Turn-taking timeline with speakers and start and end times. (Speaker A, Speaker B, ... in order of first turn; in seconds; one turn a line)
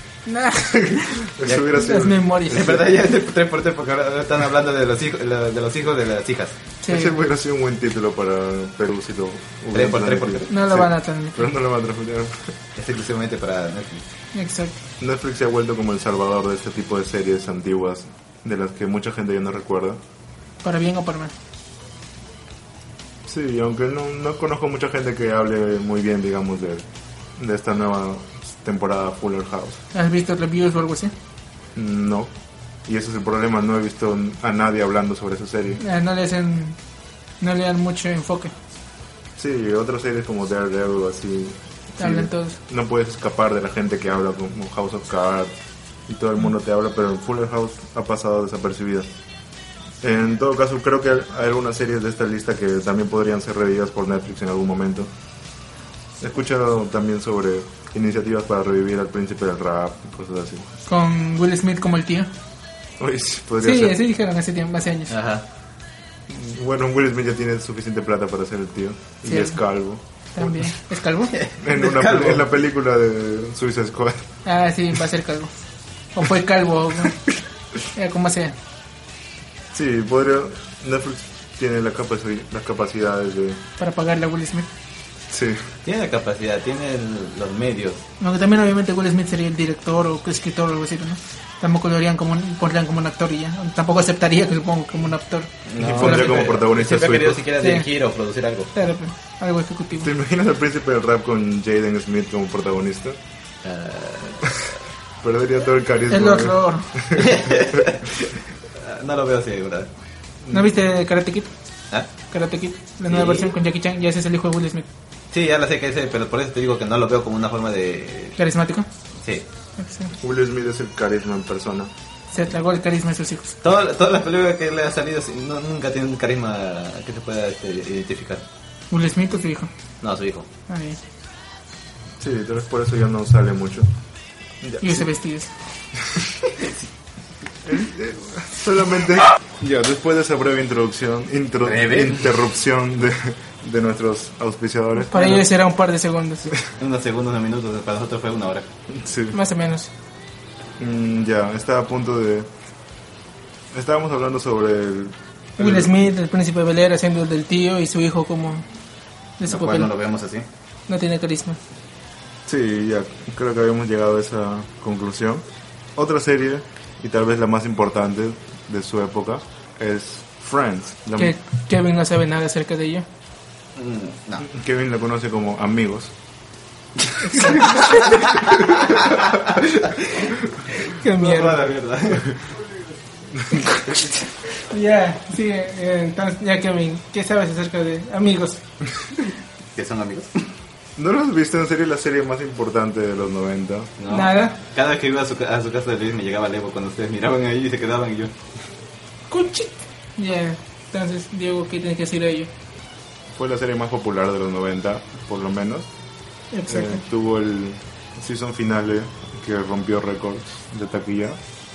Speaker A: 0.2-2.8
Speaker B: 0.7-2.7
Speaker C: 1.4-1.9
Speaker C: 2.5-6.6
Speaker A: 6.8-7.2
Speaker B: 6.9-12.5
Speaker C: 9.7-10.5
Speaker A: 10.5-11.5
Speaker C: 12.8-14.1
Speaker A: 14.3-14.8
Speaker B: 15.0-20.0
Speaker A: 20.6-21.3
Speaker B: 23.3-26.9
Speaker B: 27.4-29.8
Speaker A: 29.9-31.1
Speaker B: 31.7-32.3
Speaker B: 32.9-35.8
Speaker A: 35.8-36.8
Speaker A: 37.4-38.5
Speaker B: 39.4-45.5
Speaker A: 42.0-42.6
Speaker B: 46.1-49.1
Speaker B: 50.0-55.1
Speaker B: 56.2-60.7
Speaker A: 60.9-62.3
Speaker B: 63.0-64.0
Speaker A: 63.6-65.2
Speaker C: 65.1-65.4
Speaker B: 66.3-70.5
Speaker A: 69.2-69.6
Speaker A: 70.3-71.3
Speaker C: 71.3-72.4
Speaker B: 71.6-74.3
Speaker A: 74.4-75.5
Speaker A: 76.1-77.2
Speaker A: 77.9-78.5
Speaker B: 79.7-83.6
Speaker A: 83.8-84.7
Speaker B: 85.3-85.6
Speaker C: 85.8-88.0
Speaker A: 88.2-96.5
Speaker C: 95.7-98.7
Speaker B: 95.8-97.4
Speaker A: 97.6-97.9
Speaker A: 98.7-100.1
Speaker B: 100.0-103.2
Speaker C: 103.6-104.6
Speaker B: 104.4-107.8
Speaker A: 106.1-107.0
Speaker C: 107.1-109.9
Speaker B: 110.4-110.7
Speaker A: 110.5-111.5
Speaker A: 112.3-114.8
Speaker C: 113.1-113.5
Speaker C: 115.3-118.4
Speaker A: 118.4-118.9
Speaker C: 119.2-119.5
Speaker A: 119.8-120.2
Speaker B: 120.2-121.9
Speaker A: 122.3-123.6
Speaker C: 123.6-128.4
Speaker A: 128.9-129.7
Speaker C: 130.0-130.5
Speaker A: 130.7-131.0
Speaker B: 132.2-133.9
Speaker B: 134.6-135.1
Speaker A: 134.8-135.5
Speaker B: 137.6-145.4
Speaker C: 141.6-142.4
Speaker A: 145.0-146.6
Speaker C: 146.8-148.7
Speaker B: 148.9-149.4
Speaker A: 149.3-149.9
Speaker B: 150.8-152.5
Speaker B: 153.7-155.9
Speaker A: 155.6-158.7
Speaker A: 159.4-159.9
Speaker C: 159.5-160.4
Speaker A: 160.9-161.6
Speaker B: 162.4-165.4
Speaker B: 165.9-171.3
Speaker A: 171.2-173.0
Speaker C: 173.8-174.5
Speaker B: 174.4-176.1
Speaker A: 177.2-178.4
Speaker B: 178.3-180.6
Speaker C: 178.6-179.6
Speaker A: 180.7-181.6
Speaker C: 181.0-182.4
Speaker B: 183.4-183.7
Speaker A: 183.6-188.6
Speaker C: 189.7-190.4
Speaker B: 191.0-193.9
Speaker C: 194.0-198.3
Speaker A: 194.1-194.6
Speaker A: 199.3-202.5
Speaker B: 203.3-205.9
Speaker A: 206.5-207.0
Speaker B: 206.7-211.4